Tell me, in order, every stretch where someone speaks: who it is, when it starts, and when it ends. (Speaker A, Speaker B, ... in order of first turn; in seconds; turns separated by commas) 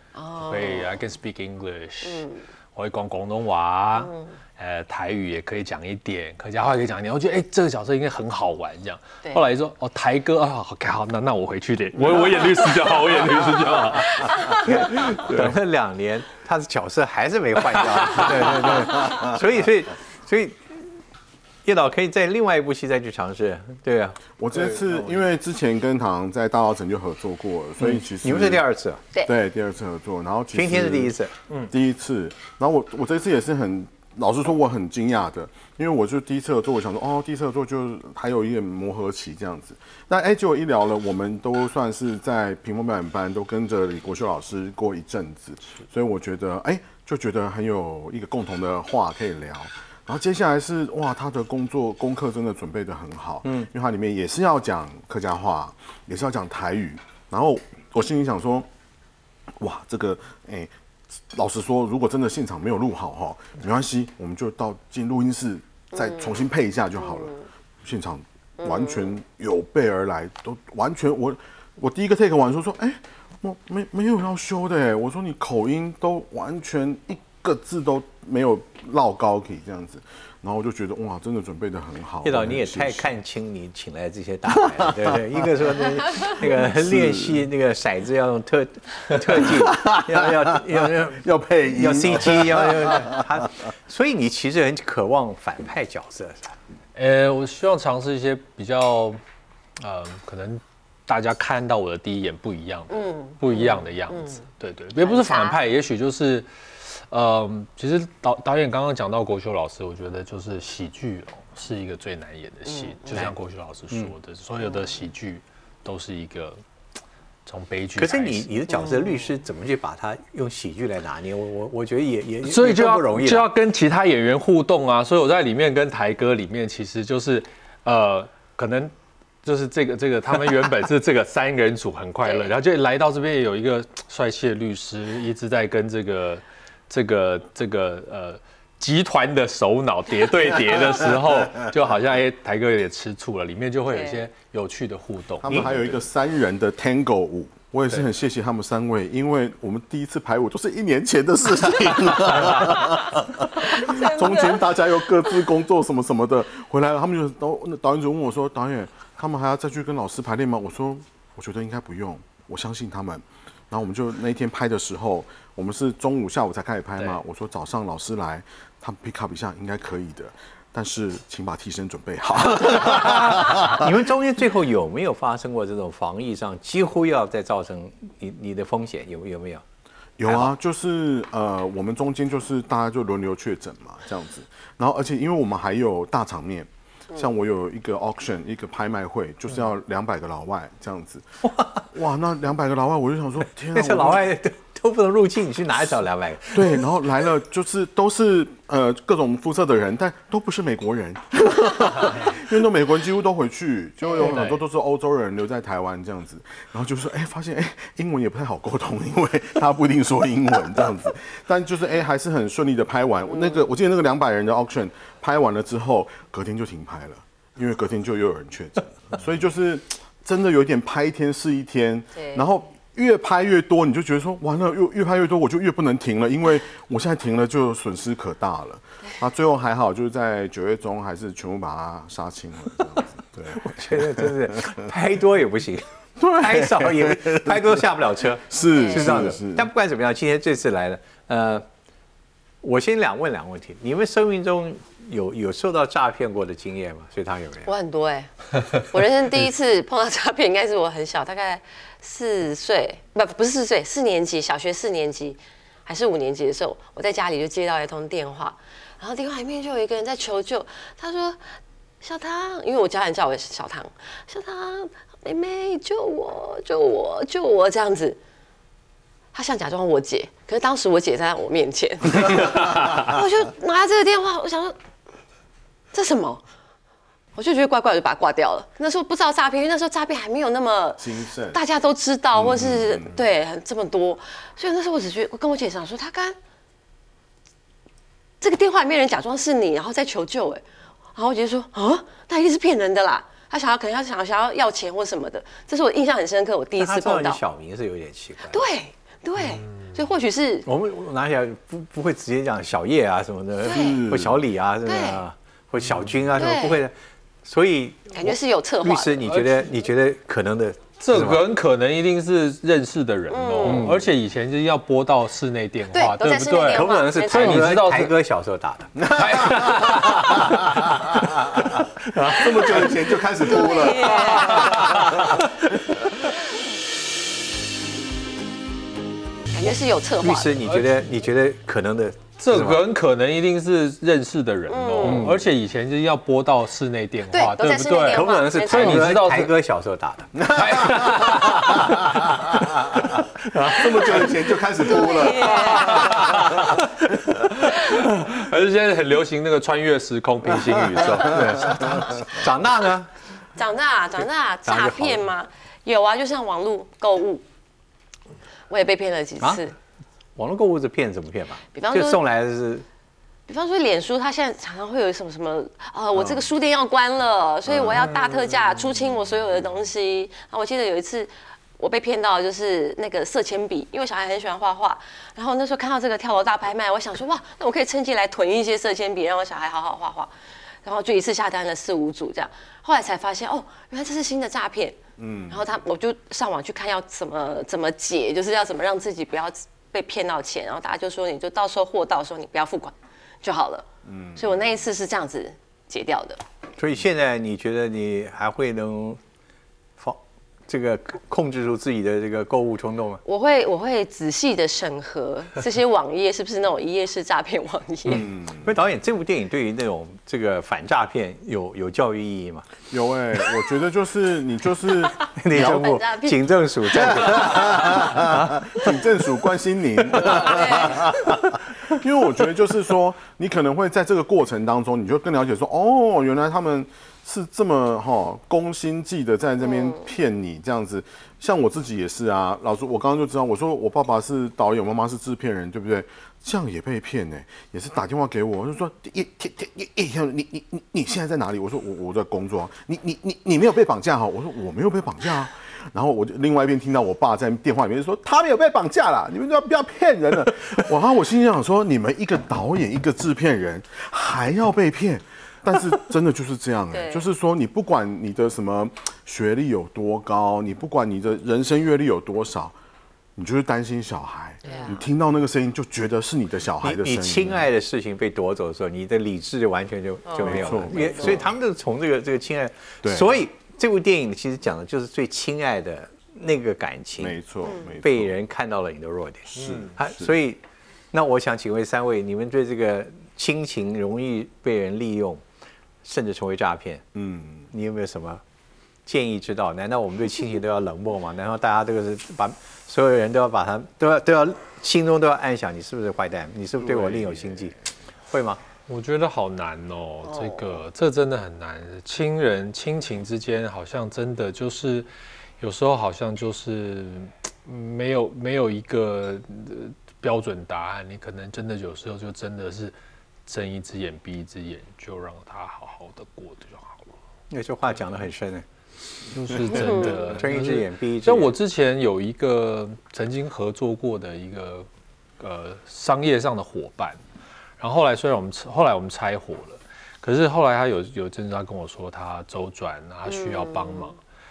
Speaker A: 0.1-0.9, Speaker B: 0.4-15.4, Speaker A: 2.0-2.4, Speaker A: 4.0-4.3, Speaker C: 14.6-20.8, Speaker B: 18.0-18.8, Speaker C: 21.6-24.2, Speaker D: 24.4-28.6, Speaker C: 27.8-29.0, Speaker D: 29.2-31.1, Speaker C: 30.5-31.3, Speaker D: 31.7-58.7, Speaker D: 59.6-60.7, Speaker D: 61.3-83.1, Speaker A: 66.0-66.3, Speaker A: 67.1-67.4, Speaker A: 68.6-69.0, Speaker C: 82.2-96.5, Speaker D: 84.6-85.1, Speaker D: 86.4-87.5, Speaker D: 89.4-93.2, Speaker B: 96.9-99.2, Speaker B: 99.8-116.6, Speaker A: 102.9-104.4, Speaker A: 105.0-105.6, Speaker A: 112.7-113.0, Speaker B: 117.5-118.5, Speaker C: 118.0-123.5, Speaker A: 118.8-119.1, Speaker B: 122.4-128.9, Speaker B: 129.4-145.9, Speaker A: 132.2-132.5, Speaker A: 143.9-144.2, Speaker D: 145.4-173.9, Speaker C: 145.5-145.7, Speaker A: 153.6-154.7, Speaker C: 172.7-179.6, Speaker D: 180.2-191.2, Speaker C: 180.2-180.5, Speaker C: 191.5-191.8, Speaker D: 191.9-194.3, Speaker C: 193.7-196.8, Speaker D: 196.5-234.7, Speaker B: 204.2-204.6, Speaker A: 222.2-222.4, Speaker C: 233.5-241.7, Speaker D: 236.2-239.7, Speaker A: 238.6-239.3, Speaker C: 242.6-247.7, Speaker A: 247.7-261.4, Speaker A: 262.0-268.2, Speaker A: 269.3-274.7, Speaker A: 275.9-276.4, Speaker A: 277.3-286.4, Speaker D: 281.0-281.6, Speaker D: 282.3-283.2, Speaker A: 288.4-290.6, Speaker A: 291.1-297.4, Speaker C: 296.8-298.6, Speaker A: 298.5-300.6, Speaker C: 300.6-311.4, Speaker A: 303.6-304.1, Speaker D: 303.6-304.4, Speaker A: 304.8-305.2, Speaker A: 306.3-306.8, Speaker A: 308.1-309.3, Speaker B: 311.0-318.1, Speaker A: 313.3-313.9, Speaker C: 313.6-314.0, Speaker A: 315.9-317.7, Speaker C: 316.7-319.1, Speaker D: 319.0-325.4, Speaker B: 319.1-321.0, Speaker C: 321.7-322.9, Speaker A: 323.4-325.1, Speaker B: 324.1-325.3, Speaker A: 329.5-330.6, Speaker C: 330.2-332.8, Speaker B: 332.4-339.5, Speaker A: 334.7-335.3, Speaker C: 335.0-335.4, Speaker A: 337.3-339.1, Speaker C: 338.1-340.5, Speaker D: 340.4-346.8, Speaker B: 340.4-342.4, Speaker C: 343.3-344.3, Speaker A: 344.8-346.5, Speaker B: 345.6-352.2, Speaker C: 351.2-353.1, Speaker A: 353.6-357.4, Speaker C: 354.6-355.2, Speaker A: 358.7-359.7, Speaker C: 360.4-362.8, Speaker A: 361.7-362.2, Speaker A: 363.5-380.3, Speaker D: 367.7-368.0, Speaker A: 380.8-385.0, Speaker D: 385.2-385.6, Speaker A: 385.5-393.8, Speaker D: 394.0-394.5, Speaker A: 394.4-396.4, Speaker C: 396.8-399.2, Speaker C: 400.0-403.2, Speaker A: 403.2-408.3, Speaker C: 408.1-412.6, Speaker D: 408.1-408.7, Speaker D: 412.9-415.8, Speaker C: 415.3-418.6, Speaker A: 415.5-417.7, Speaker D: 417.0-462.8, Speaker A: 420.3-421.0, Speaker A: 456.9-457.2, Speaker D: 463.4-467.7, Speaker A: 464.6-465.0, Speaker C: 466.8-477.4, Speaker A: 470.3-471.4, Speaker D: 470.4-471.5, Speaker D: 473.0-473.4, Speaker D: 477.2-478.3, Speaker C: 478.0-485.4, Speaker D: 479.5-480.3, Speaker B: 479.6-479.8, Speaker C: 486.0-487.0, Speaker D: 487.1-487.7, Speaker C: 487.7-488.4, Speaker C: 489.1-497.7, Speaker D: 496.8-497.7, Speaker C: 498.3-498.6, Speaker B: 498.9-505.1, Speaker A: 500.3-500.7, Speaker B: 505.6-512.9, Speaker B: 513.5-517.1, Speaker C: 517.5-518.6, Speaker B: 519.3-524.9, Speaker A: 519.7-520.2, Speaker C: 519.7-521.5, Speaker B: 525.4-527.2, Speaker B: 527.8-534.2, Speaker A: 533.3-534.1